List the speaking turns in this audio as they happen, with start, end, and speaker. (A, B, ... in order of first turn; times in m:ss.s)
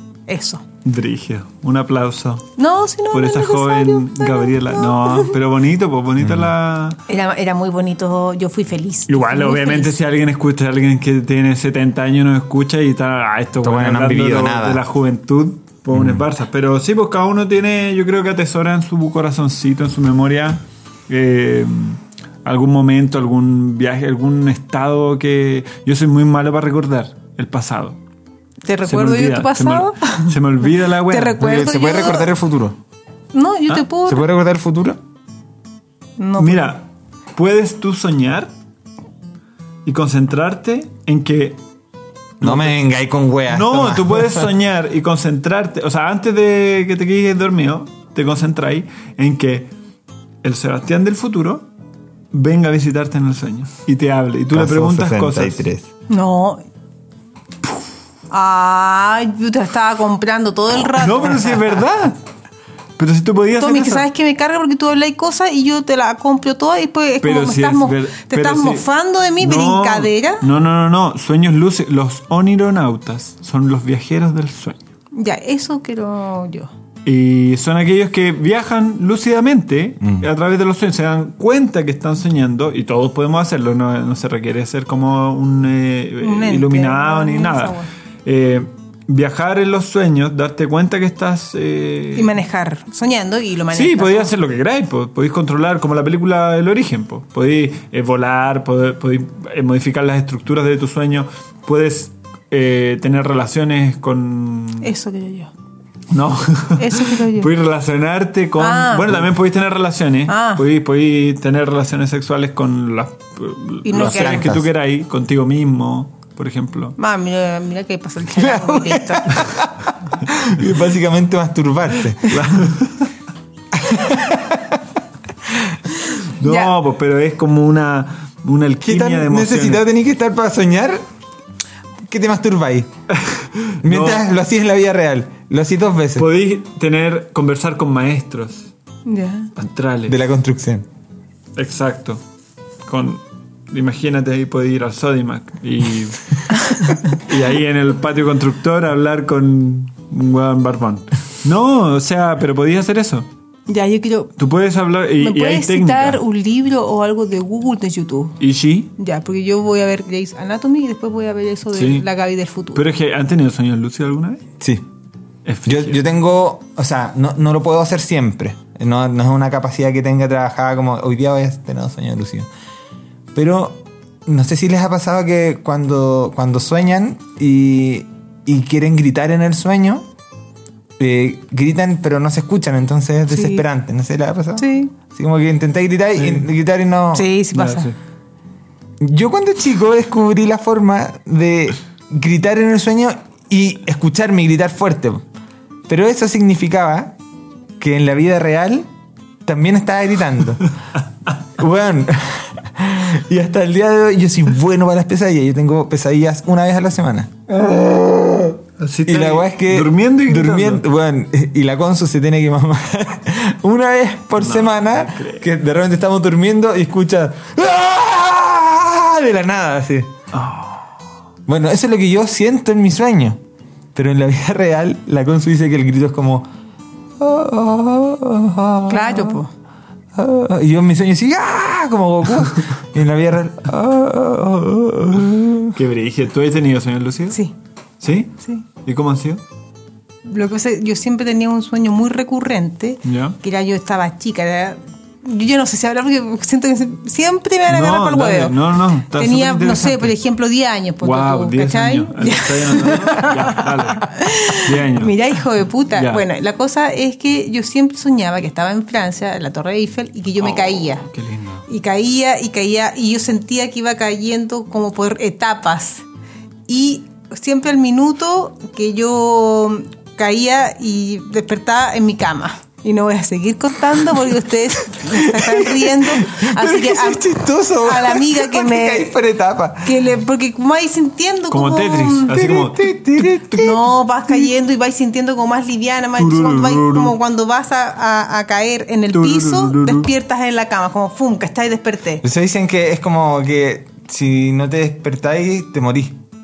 0:00.3-0:00.6 A
0:00.8-0:02.5 B
0:02.6-0:05.3 A
0:03.1-0:07.0 B
0:06.2-0:06.5 C
0:07.1-0:09.9 A
0:09.1-0:28.0 B
0:13.6-0:14.8 C
0:15.9-0:16.2 C
0:28.6-0:32.3 A
0:28.8-0:31.6 B
0:31.4-0:32.8 C
0:33.3-0:34.3 A
0:34.0-0:35.0 C
0:36.2-0:36.7 A
0:36.4-0:38.5 B
0:39.8-0:41.6 B
0:42.4-0:42.8 B
0:42.4-0:44.5 C
0:43.5-0:49.7 B
0:50.4-0:51.7 B
0:52.3-0:55.7 B
0:54.5-0:55.9 C
0:56.1-0:56.6 A
0:58.3-1:01.7 A
1:01.0-1:02.2 B
1:03.0-1:04.1 B
1:03.6-1:10.4 A
1:07.2-1:08.9 B
1:09.4-1:14.8 B
1:15.1-1:16.7 A
1:17.0-1:32.3 B
1:26.2-1:27.9 A
1:32.2-1:34.3 A
1:33.7-1:44.9 B
1:44.8-1:45.5 A
1:46.1-1:57.0 B
1:46.8-1:47.5 A
1:48.6-1:49.3 A
1:50.3-1:50.6 A
1:53.8-1:54.5 A
1:53.9-1:54.6 C
1:57.0-1:59.4 A
1:58.3-2:02.4 C
2:02.2-2:03.1 B
2:03.7-2:04.8 C
2:05.5-2:05.7 C
2:06.4-2:09.8 B
2:06.4-2:06.7 A
2:08.8-2:11.0 C
2:12.1-2:12.9 C
2:13.1-2:14.3 B
2:13.8-2:16.3 C
2:16.2-2:18.7 B
2:19.0-2:19.5 A
2:19.6-2:20.2 B
2:20.1-2:20.8 C
2:21.6-2:22.2 B
2:22.8-2:33.3 B
2:33.7-2:34.3 A
2:34.4-2:36.2 B
2:35.2-2:38.4 A
2:38.4-2:38.9 B
2:39.0-2:42.9 A
2:41.7-2:42.0 B
2:42.7-2:44.4 B
2:44.6-2:44.8 C
2:45.4-2:46.0 B
2:45.6-2:52.5 C
2:53.3-3:00.0 C
3:01.0-3:07.3 C
3:03.3-3:03.6 A
3:04.6-3:04.9 A
3:06.2-3:06.4 B
3:07.1-3:07.9 A
3:07.5-3:08.0 B
3:09.0-3:15.2 C
3:15.9-3:17.2 C
3:17.8-3:18.9 C
3:19.4-3:20.7 C
3:21.6-3:40.1 C
3:28.8-3:30.8 B
3:34.4-3:35.5 B
3:40.3-3:40.9 B
3:41.5-3:43.4 C
3:43.9-3:46.5 C
3:47.2-3:49.4 C
3:48.9-3:49.5 A
3:50.1-3:55.7 C
3:55.7-3:57.4 B
3:58.0-3:59.4 B
4:00.2-4:21.0 A
4:03.0-4:03.4 B
4:07.7-4:10.1 B
4:11.0-4:15.1 B
4:15.9-4:16.2 B
4:20.4-4:21.6 B
4:21.7-4:26.0 A
4:26.7-4:39.1 A
4:35.0-4:40.0 C
4:39.8-4:42.5 A
4:41.5-4:43.0 B
4:42.3-4:43.8 C
4:43.5-4:52.2 A
4:46.2-4:47.2 B
4:49.1-4:50.1 B
4:52.2-4:56.2 C